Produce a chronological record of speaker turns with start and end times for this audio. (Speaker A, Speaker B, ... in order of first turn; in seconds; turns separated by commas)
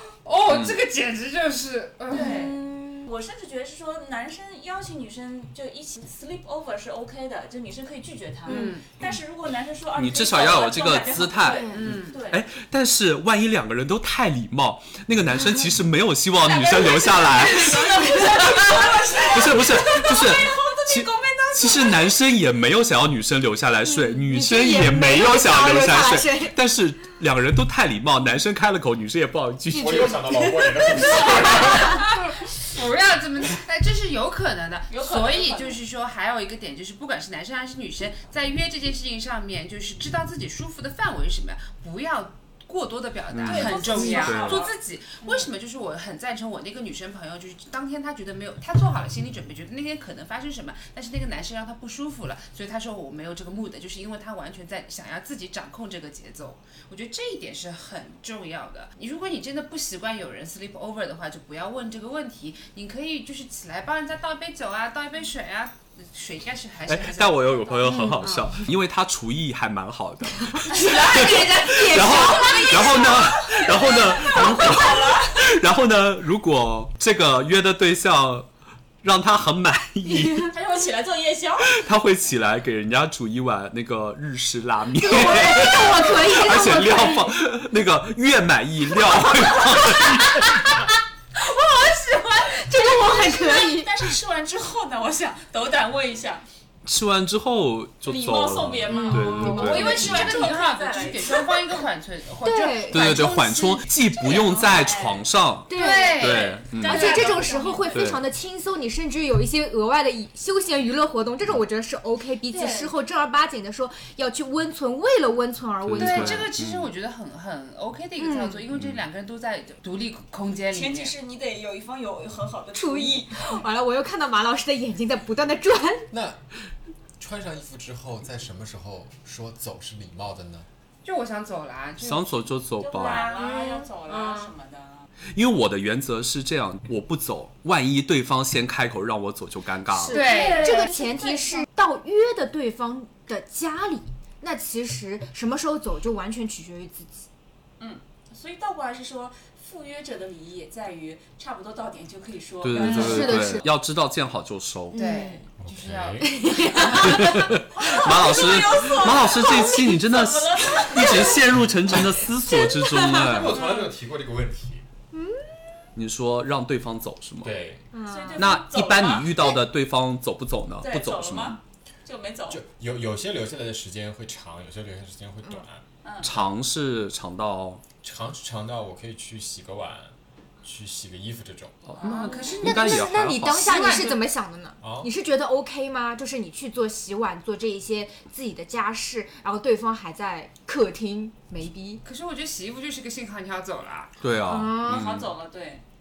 Speaker A: 0.2-2.5, Speaker B: 0.5-0.8, Speaker C: 2.1-12.4, Speaker D: 2.1-3.1, Speaker D: 8.5-8.8, Speaker A: 8.5-8.9, Speaker B: 9.9-30.2, Speaker D: 11.4-11.8, Speaker A: 11.7-12.2, Speaker C: 16.4-22.1, Speaker D: 17.4-18.8, Speaker D: 23.9-26.6, Speaker D: 29.7-30.9, Speaker E: 29.7-32.0, Speaker C: 30.9-32.0, Speaker A: 31.4-68.6, Speaker C: 34.9-35.8, Speaker B: 43.3-44.6, Speaker C: 43.4-45.5, Speaker D: 43.9-44.3, Speaker B: 66.8-78.5, Speaker D: 70.5-73.3, Speaker C: 72.1-75.5, Speaker B: 79.0-80.5, Speaker D: 80.1-80.5, Speaker C: 80.5-81.8, Speaker B: 81.7-90.8, Speaker D: 85.0-87.4, Speaker C: 89.9-90.4, Speaker D: 89.9-90.7, Speaker C: 91.3-96.4, Speaker D: 92.4-94.1, Speaker B: 96.8-100.4, Speaker C: 98.0-101.8, Speaker D: 98.9-100.3, Speaker A: 99.1-103.9, Speaker D: 102.4-103.3, Speaker B: 102.9-107.2, Speaker C: 104.2-105.2, Speaker D: 105.7-116.5, Speaker A: 105.7-107.4, Speaker C: 105.8-108.1, Speaker B: 107.9-108.2, Speaker C: 112.5-112.9, Speaker B: 115.8-116.9, Speaker A: 116.0-121.1, Speaker D: 118.2-118.6, Speaker B: 118.7-119.0, Speaker C: 120.7-123.6, Speaker D: 122.7-126.1, Speaker E: 126.1-126.4, Speaker E: 127.2-130.7, Speaker A: 131.0-134.5, Speaker B: 132.0-133.3, Speaker C: 132.8-135.1, Speaker D: 133.4-133.8, Speaker B: 135.3-140.2, Speaker D: 139.9-147.2, Speaker C: 140.1-141.7, Speaker A: 140.1-140.9, Speaker C: 147.8-153.4, Speaker B: 152.6-155.0, Speaker D: 152.8-153.7, Speaker A: 152.8-153.3, Speaker D: 154.9-155.4, Speaker A: 154.9-157.3, Speaker E: 155.6-156.3, Speaker D: 156.2-157.5, Speaker C: 156.6-161.5, Speaker B: 157.0-163.6, Speaker D: 162.6-163.0, Speaker E: 163.1-164.8, Speaker C: 163.5-163.9, Speaker D: 165.1-165.4, Speaker B: 165.9-167.6, Speaker E: 167.4-167.8, Speaker D: 167.9-168.5, Speaker C: 168.0-169.6, Speaker B: 168.4-171.6, Speaker C: 170.8-172.6, Speaker E: 172.5-175.8, Speaker C: 176.0-176.3, Speaker B: 176.2-177.8, Speaker E: 178.0-181.8, Speaker B: 181.9-183.8, Speaker C: 182.0-182.7, Speaker A: 182.0-184.3, Speaker D: 182.2-192.0, Speaker E: 184.8-185.1, Speaker A: 192.0-194.1, Speaker B: 194.2-195.3, Speaker D: 194.4-195.1, Speaker C: 194.8-195.8